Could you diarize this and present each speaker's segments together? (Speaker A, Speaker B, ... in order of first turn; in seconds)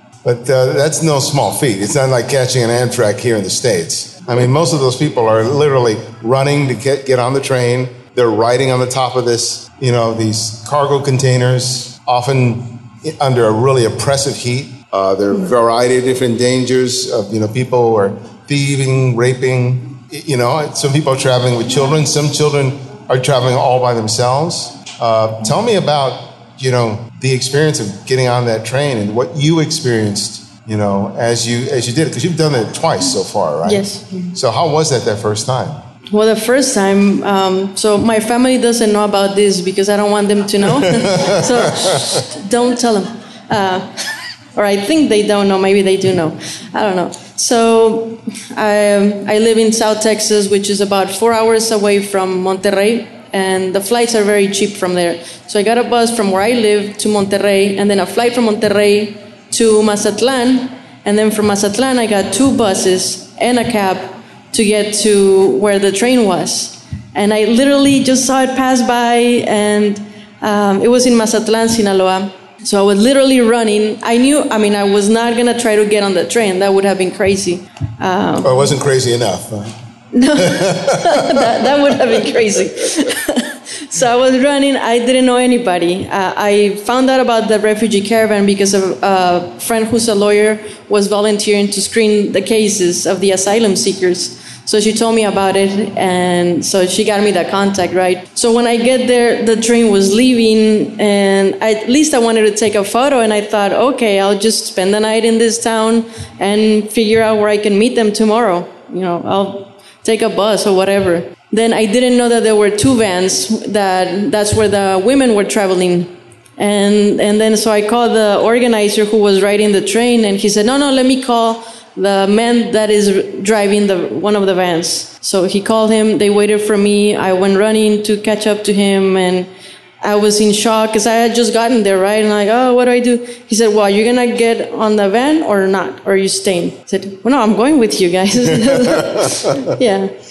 Speaker A: 0.2-35.8, 40.8-42.2, 78.4-79.8, 80.4-82.5, 138.4-139.7
Speaker B: 33.6-34.3, 36.1-78.5, 80.1-129.5, 130.0-140.1